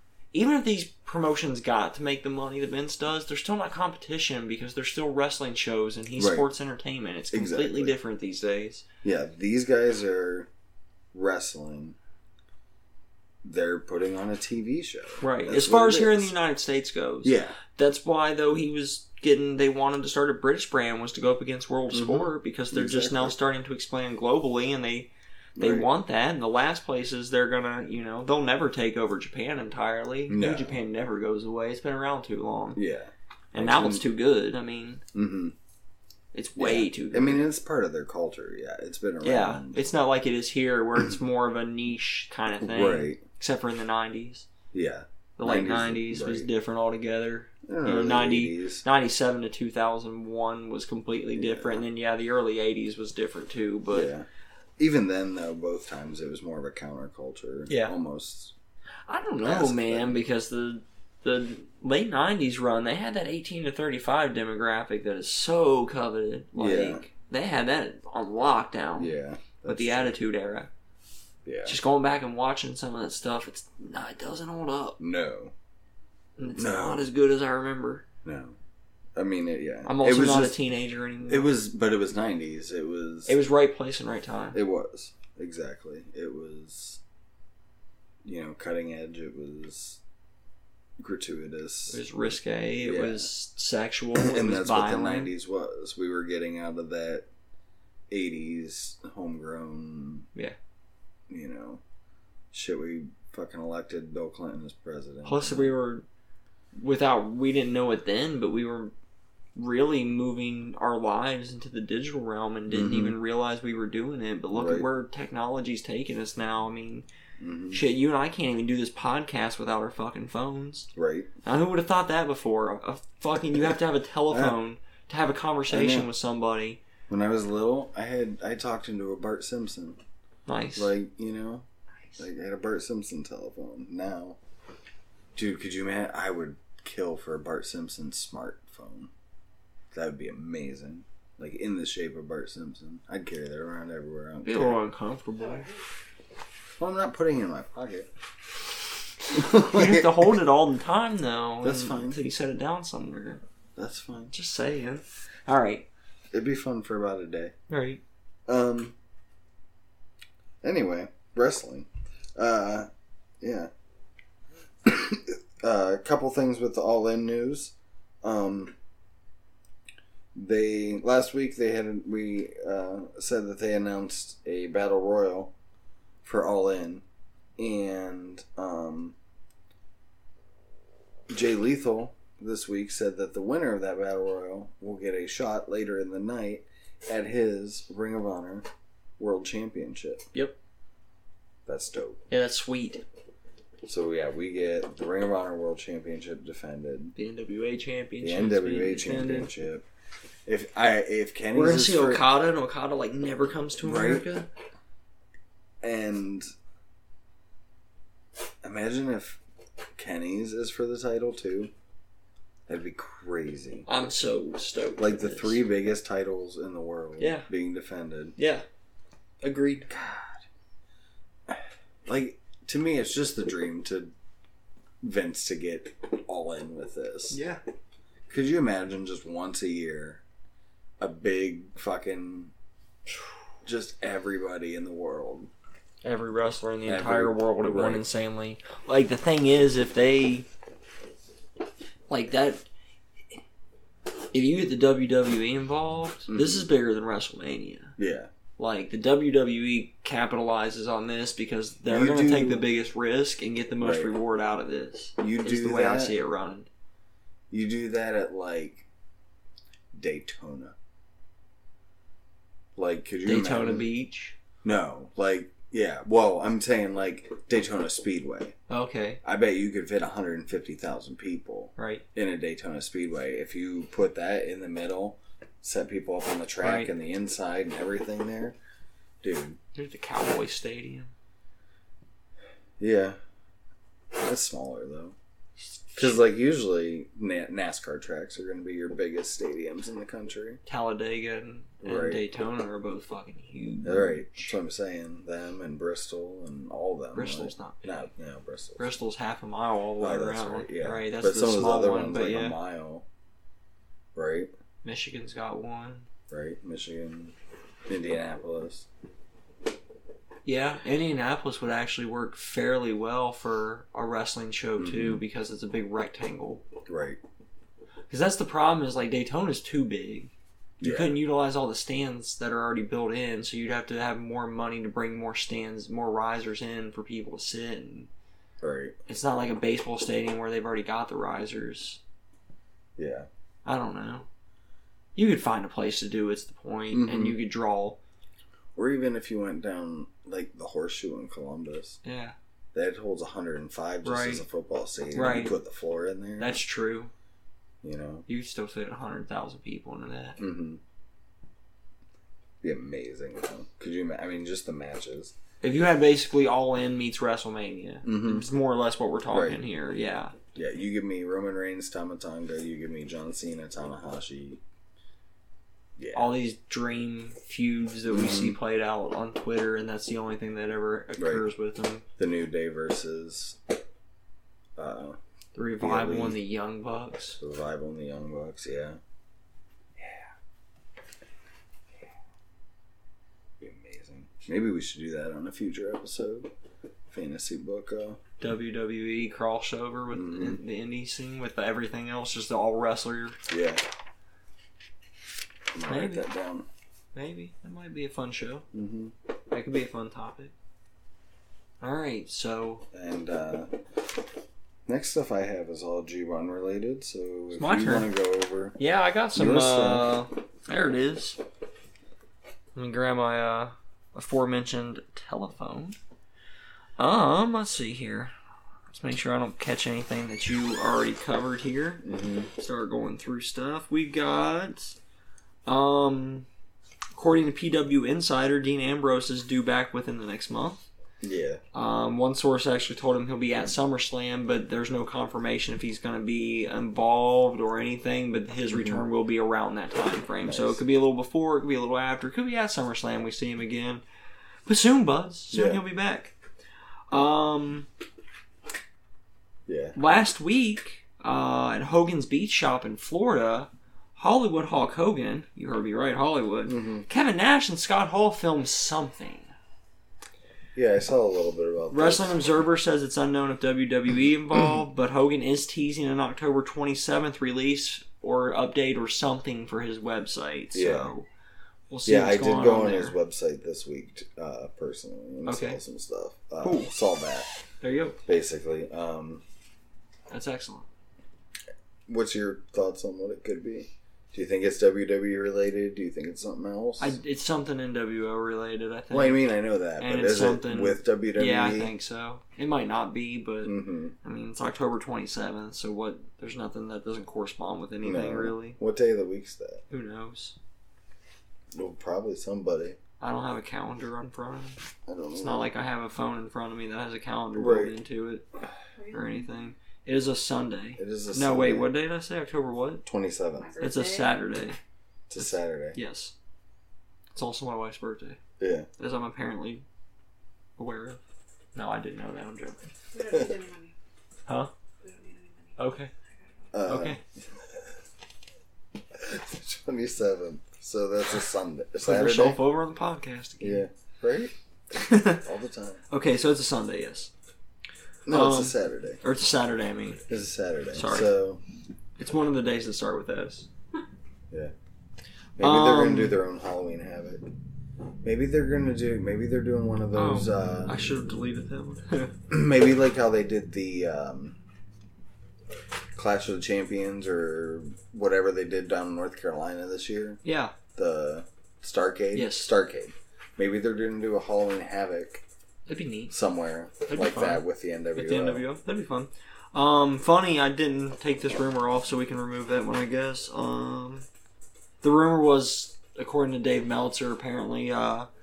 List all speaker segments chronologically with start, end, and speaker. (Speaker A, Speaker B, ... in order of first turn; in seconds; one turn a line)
Speaker A: 0.3-8.8
Speaker B: 6.2-6.5
Speaker B: 7.3-7.9
Speaker B: 9.0-10.5
Speaker B: 11.1-12.0
Speaker B: 13.4-16.3
Speaker A: 15.2-32.8
Speaker B: 17.2-17.6
Speaker B: 21.9-23.4
Speaker B: 25.6-25.9
Speaker B: 30.3-30.8
Speaker B: 32.8-34.1
Speaker A: 33.5-35.0
Speaker B: 35.1-35.5
Speaker A: 36.3-37.4
Speaker B: 36.6-39.9
Speaker A: 39.2-44.5
Speaker B: 42.6-43.2
Speaker B: 44.7-46.5
Speaker A: 45.4-54.1
Speaker B: 47.7-48.9
Speaker B: 51.3-51.9
Speaker B: 53.9-54.3
Speaker B: 54.8-58.5
Speaker A: 57.7-58.0
Speaker A: 59.1-69.1
Speaker B: 59.4-60.2
Speaker B: 66.6-67.0
Speaker B: 69.0-70.1
Speaker A: 69.7-70.7
Speaker B: 71.5-71.8
Speaker A: 71.7-75.0
Speaker B: 75.0-75.5
Speaker A: 76.4-78.0
Speaker B: 76.6-77.1
Speaker B: 78.2-78.6
Speaker B: 79.2-80.6
Speaker A: 79.8-81.5
Speaker B: 81.3-83.4
Speaker A: 83.3-84.6
Speaker B: 84.5-87.0
Speaker B: 88.2-90.0
Speaker B: 91.0-92.0
Speaker A: 91.9-95.3
Speaker B: 92.8-93.3
Speaker B: 94.1-97.3
Speaker B: 98.1-100.3
Speaker B: 101.3-101.8
Speaker B: 102.5-105.7
Speaker A: 105.2-106.0
Speaker A: 106.8-108.9
Speaker A: 109.6-117.1
Speaker B: 112.7-113.2
Speaker B: 114.5-114.9
Speaker B: 117.4-117.8
Speaker A: 117.7-120.9
Speaker B: 121.0-121.3
Speaker A: 121.4-126.8
Speaker B: 124.3-124.6
Speaker B: 125.7-126.1
Speaker B: 127.1-130.0
Speaker A: 130.5-130.9
Speaker B: 130.8-131.7
Speaker B: 132.2-134.4
Speaker B: 135.3-139.1
Speaker B: 139.9-144.8
Speaker A: 144.4-145.7
Speaker B: 146.8-148.1
Speaker A: 149.3-153.4
Speaker B: 149.3-150.4
Speaker B: 151.6-152.2
Speaker B: 153.8-154.3
Speaker A: 154.3-155.9
Speaker B: 156.3-157.5
Speaker A: 157.7-158.0
Speaker B: 158.5-158.9
Speaker B: 160.6-162.9
Speaker B: 163.4-163.7
Speaker B: 164.8-168.8
Speaker B: 170.3-175.5
Speaker B: 176.2-177.0
Speaker B: 177.6-179.2
Speaker B: 181.3-188.7
Speaker B: 189.2-190.3
Speaker B: 191.7-192.3
Speaker A: 192.3-193.0
Speaker B: 193.8-197.2
Speaker A: 197.2-199.5
Speaker B: 198.2-199.9
Speaker B: 200.5-202.2
Speaker A: 201.5-204.5
Speaker B: 203.8-204.2
Speaker B: 205.8-206.5
Speaker B: 208.6-209.4
Speaker B: 210.0-211.7
Speaker B: 212.7-213.9
Speaker A: 213.9-215.6
Speaker B: 215.0-218.3
Speaker A: 217.2-217.5
Speaker A: 218.4-218.7
Speaker A: 219.4-219.9
Speaker B: 219.9-220.4
Speaker B: 221.5-224.1
Speaker B: 225.0-227.4
Speaker A: 227.3-227.6
Speaker B: 228.3-230.2
Speaker B: 231.0-232.5
Speaker B: 233.7-235.5
Speaker A: 236.0-240.5
Speaker B: 236.9-238.1
Speaker A: 242.1-242.7
Speaker A: 244.3-248.0
Speaker B: 246.3-246.7
Speaker B: 248.0-248.3
Speaker A: 248.6-256.7
Speaker B: 251.9-252.7
Speaker B: 253.8-254.1
Speaker B: 255.2-256.1
Speaker B: 257.5-258.9
Speaker B: 259.9-260.8
Speaker B: 262.8-263.9
Speaker A: 263.2-264.4
Speaker B: 264.6-268.6
Speaker A: 268.7-269.2
Speaker B: 269.2-278.6
Speaker A: 271.8-272.0
Speaker A: 276.6-276.9
Speaker B: 279.2-279.6
Speaker A: 279.8-281.1
Speaker B: 282.8-283.2
Speaker B: 284.1-285.2
Speaker A: 285.9-286.2
Speaker B: 285.9-290.6
Speaker A: 290.7-294.6
Speaker B: 291.8-292.2
Speaker B: 293.8-298.9
Speaker A: 297.1-298.1
Speaker A: 298.8-302.6
Speaker B: 300.0-303.1
Speaker B: 304.1-304.5
Speaker A: 304.8-306.1
Speaker B: 306.3-307.4
Speaker B: 307.9-308.9
Speaker A: 310.5-316.6
Speaker B: 314.8-315.2
Speaker B: 316.9-317.2
Speaker A: 318.1-320.3
Speaker B: 320.8-321.2
Speaker A: 320.8-328.1
Speaker B: 328.6-328.9
Speaker A: 329.1-332.0
Speaker B: 333.0-333.3
Speaker A: 333.6-334.3
Speaker A: 335.2-338.0
Speaker B: 336.9-337.4
Speaker B: 338.8-342.0
Speaker A: 342.0-342.4
Speaker B: 342.7-346.6
Speaker A: 344.0-344.4
Speaker A: 345.1-345.6
Speaker A: 346.4-347.1
Speaker B: 347.8-348.3
Speaker A: 348.3-350.4
Speaker B: 350.4-350.8
Speaker B: 352.6-355.3
Speaker A: 355.6-360.4
Speaker B: 358.0-358.5
Speaker B: 359.3-359.6
Speaker B: 360.6-364.6
Speaker B: 366.0-366.4
Speaker A: 366.1-372.1
Speaker B: 368.1-368.6
Speaker B: 371.2-371.4
Speaker B: 372.2-373.6
Speaker B: 374.8-375.2
Speaker A: 375.6-377.4
Speaker B: 375.8-376.4
Speaker B: 377.4-379.0
Speaker B: 380.0-380.3
Speaker B: 383.6-386.5
Speaker B: 387.1-388.2
Speaker A: 388.4-393.4
Speaker B: 390.1-390.6
Speaker B: 393.5-393.8
Speaker B: 395.7-396.7
Speaker A: 395.9-396.3
Speaker A: 397.1-398.6
Speaker B: 398.7-399.1
Speaker A: 399.5-400.5
Speaker A: 401.8-402.9
Speaker B: 402.9-403.8
Speaker B: 404.9-408.8
Speaker A: 407.5-408.1
Speaker A: 408.8-411.4
Speaker B: 409.3-410.1
Speaker A: 412.8-416.0
Speaker A: 417.0-418.3
Speaker A: 418.9-425.0
Speaker B: 422.0-422.5
Speaker A: 425.7-426.5
Speaker A: 427.1-430.8
Speaker B: 431.2-431.6
Speaker A: 431.7-444.0
Speaker B: 438.7-439.0
Speaker B: 440.4-440.8
Speaker A: 444.7-446.4
Speaker B: 445.5-445.8
Speaker A: 447.1-447.9
Speaker B: 449.7-450.0
Speaker A: 449.9-459.5
Speaker B: 456.7-457.1
Speaker B: 460.8-462.3
Speaker A: 461.9-471.3
Speaker B: 470.7-471.1
Speaker A: 471.9-473.2
Speaker B: 472.1-477.5
Speaker A: 475.5-475.8
Speaker A: 476.6-476.9
Speaker A: 477.8-478.2
Speaker B: 478.3-479.4
Speaker A: 480.3-480.9
Speaker B: 482.1-487.2
Speaker A: 487.0-489.4
Speaker B: 489.1-491.9
Speaker A: 490.0-498.8
Speaker B: 493.6-494.1
Speaker B: 498.0-499.8
Speaker A: 499.9-500.6
Speaker B: 501.8-503.0
Speaker A: 503.2-504.8
Speaker B: 505.1-505.7
Speaker A: 505.3-508.5
Speaker B: 507.5-507.9
Speaker A: 509.1-513.0
Speaker B: 511.0-511.9
Speaker B: 513.1-513.8
Speaker C: 513.7-514.4
Speaker A: 513.8-514.8
Speaker B: 515.3-516.0
Speaker A: 515.9-516.3
Speaker A: 517.4-518.4
Speaker B: 518.6-518.9
Speaker A: 519.0-519.9
Speaker A: 520.8-521.2
Speaker A: 521.8-522.8
Speaker C: 523.1-524.0
Speaker B: 523.2-523.6
Speaker C: 525.0-525.8
Speaker A: 525.8-526.1
Speaker B: 526.7-527.9
Speaker A: 526.9-527.2
Speaker B: 529.1-532.6
Speaker A: 532.0-533.9
Speaker B: 533.6-534.5
Speaker A: 534.9-535.5
Speaker B: 535.4-536.0
Speaker A: 536.1-537.3
Speaker B: 538.3-539.2
Speaker A: 538.3-540.2
Speaker B: 540.3-541.6
Speaker A: 540.9-541.3
Speaker A: 542.2-543.7
Speaker B: 545.6-547.4
Speaker A: 545.6-546.4
Speaker B: 548.2-551.0
Speaker A: 550.1-552.3
Speaker B: 552.5-554.6
Speaker B: 556.1-560.4
Speaker A: 560.4-560.8
Speaker B: 561.0-565.4
Speaker A: 562.3-562.7
Speaker A: 565.9-566.3
Speaker B: 566.3-568.6
Speaker A: 567.1-567.6
Speaker A: 568.1-574.3
Speaker A: 575.0-578.3